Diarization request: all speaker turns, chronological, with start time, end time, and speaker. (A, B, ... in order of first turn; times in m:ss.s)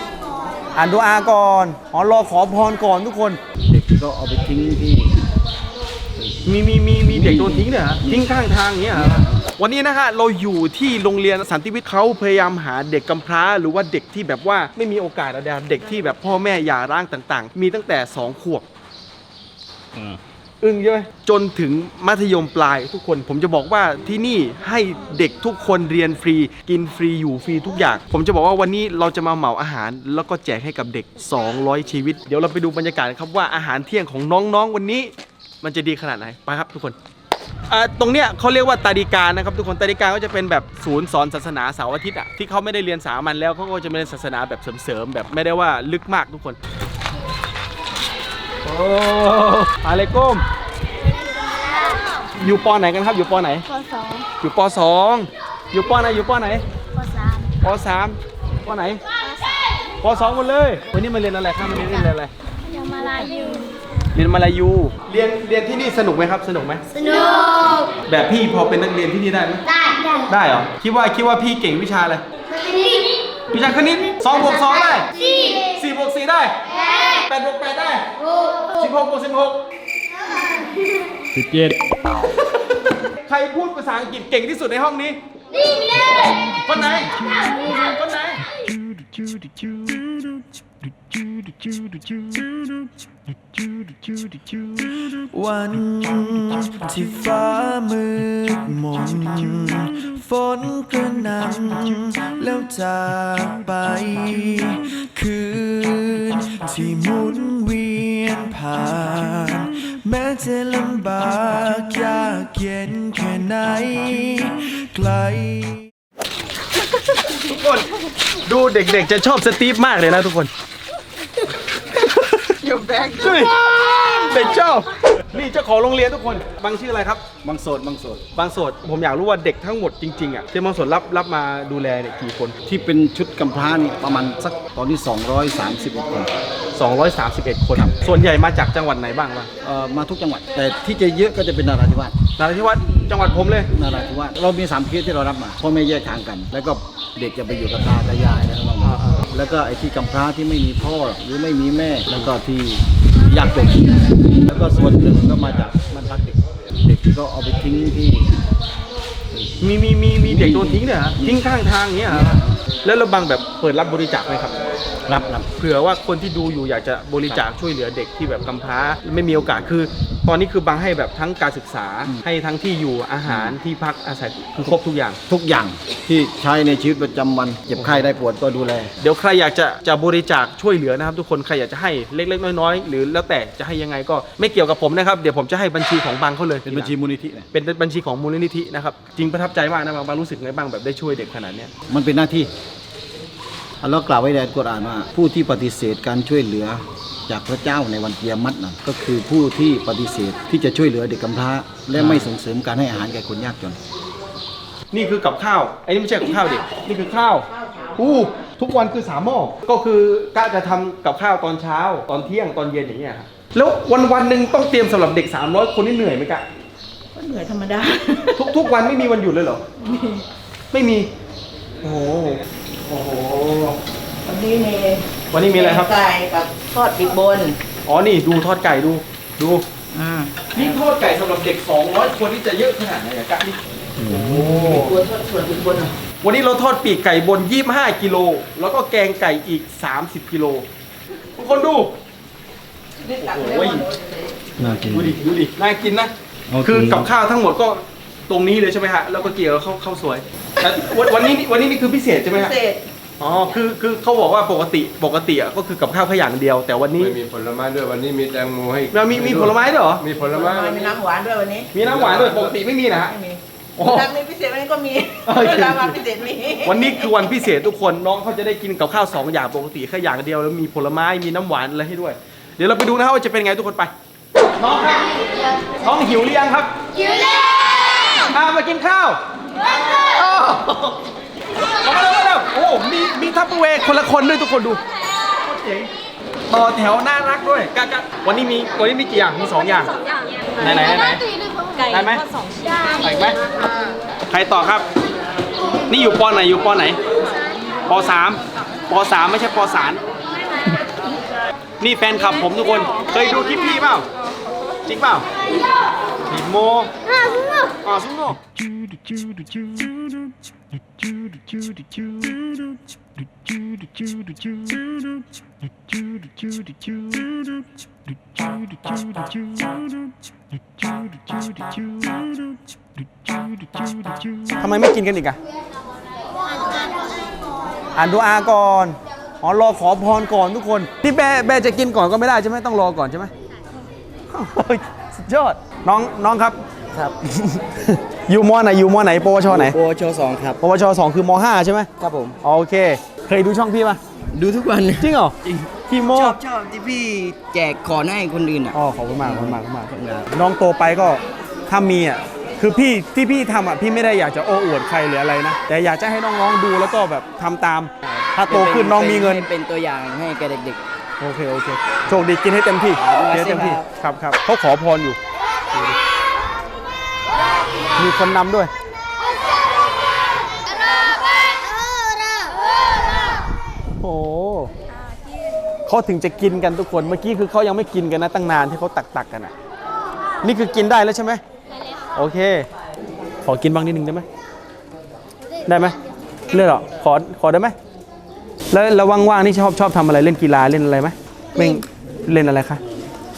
0:00.7-0:03.4 A
0:03.6-0:05.2 B
0:06.4-0:18.6 A
0:07.1-0:08.3 B
0:08.9-0:09.2 B
0:20.6-0:35.1 A
0:35.6-0:37.0 A
0:37.7-0:46.6 A
0:48.6-0:50.4 A
0:51.6-0:52.0 C
0:52.4-0:53.7 A
0:53.7-0:54.2 C
0:54.4-0:56.6 A
0:56.9-0:57.5 C
0:57.6-0:59.0 A
1:00.0-1:02.3 A
1:02.7-1:03.7 C
1:04.1-1:06.8 A
1:06.9-1:07.9 C
1:07.8-1:12.2 A
1:09.9-1:10.2 C
1:12.5-1:13.1 C
1:13.5-1:19.6 A
1:21.4-1:21.7 D
1:23.0-1:25.2 A
1:26.5-1:28.4 A
1:28.6-1:30.3 D
1:31.1-1:32.7 D
1:33.5-1:55.9 D
1:57.2-2:00.5 A
2:01.9-2:07.2 A
2:02.7-2:03.1 E
2:07.4-2:08.2 B
2:08.3-2:12.6 A
2:12.6-2:16.3 B
2:16.7-2:19.5 A
2:19.6-2:22.1 B
2:22.4-2:23.7 A
2:23.7-2:38.3 B
2:28.8-2:29.2 A
2:39.6-2:44.6 A
2:40.2-2:41.5 B
2:42.1-2:42.6 B
2:45.1-2:45.5 B
2:45.6-2:55.2 A
2:53.3-2:53.6 B
2:55.3-2:59.0 B
2:59.0-3:06.9 A
3:06.6-3:07.5 B
3:07.5-3:11.7 A
3:11.9-3:12.5 B
3:13.8-3:23.8 B
3:22.0-3:22.3 A
3:24.9-3:36.4 A
3:37.1-3:38.4 E
3:38.3-3:39.6 A
3:39.8-3:40.2 E
3:40.7-3:41.1 A
3:41.8-3:42.4 E
3:42.9-3:43.3 A
3:43.0-3:47.6 E
3:45.3-3:45.9 A
3:47.8-3:49.6 A
3:49.9-3:50.5 E
3:50.5-3:54.9 A
3:54.0-3:54.5 B
3:54.4-3:55.9 E
3:56.2-4:00.6 A
4:01.4-4:01.9 A
4:03.0-4:04.2 E
4:03.1-4:03.8 A
4:04.6-4:05.1 B
4:04.9-4:12.6 A
4:06.5-4:07.1 B
4:12.3-4:12.8 E
4:13.2-4:17.2 A
4:17.0-4:21.0 F
4:18.9-4:20.0 A
4:20.3-4:21.7 E
4:21.7-4:23.1 A
4:21.8-4:22.6 F
4:22.9-4:26.9 E
4:23.8-4:24.1 A
4:25.2-4:26.0 A
4:26.6-4:33.9 A
4:34.6-4:35.1 A
4:35.8-4:36.7 A
4:38.2-4:39.2 A
4:39.8-4:40.8 A
4:41.8-4:44.8 A
4:45.4-4:45.9 A
4:46.5-4:49.9 A
4:50.6-4:51.2 A
4:51.8-4:52.2 A
4:53.0-4:53.4 A
4:54.3-4:54.8 A
4:55.9-4:57.0 A
4:57.9-5:00.0 A
5:01.8-5:04.1 A
5:04.8-5:05.2 A
5:06.3-5:06.9 A
5:07.8-5:08.4 A
5:21.3-5:21.8 D
5:23.9-5:24.4 D
5:24.6-5:25.4 A
5:27.9-5:33.3 A
5:34.3-5:36.6 A
5:37.3-5:39.8 A
5:39.4-5:40.6 G
5:40.6-5:41.9 A
5:42.0-5:42.4 G
5:42.4-5:44.0 A
5:44.3-5:45.1 G
5:45.0-5:46.4 A
5:46.1-5:50.3 G
5:48.7-5:59.5 A
5:58.1-6:00.8 G
6:01.2-6:05.2 A
6:03.0-6:03.8 G
6:08.0-6:08.7 A
6:14.0-6:14.7 A
6:15.8-6:19.5 A
6:20.4-6:21.4 A
6:22.1-6:22.6 A
6:23.4-6:24.2 A
6:25.6-6:26.0 A
6:26.5-6:27.7 A
6:28.7-6:32.8 A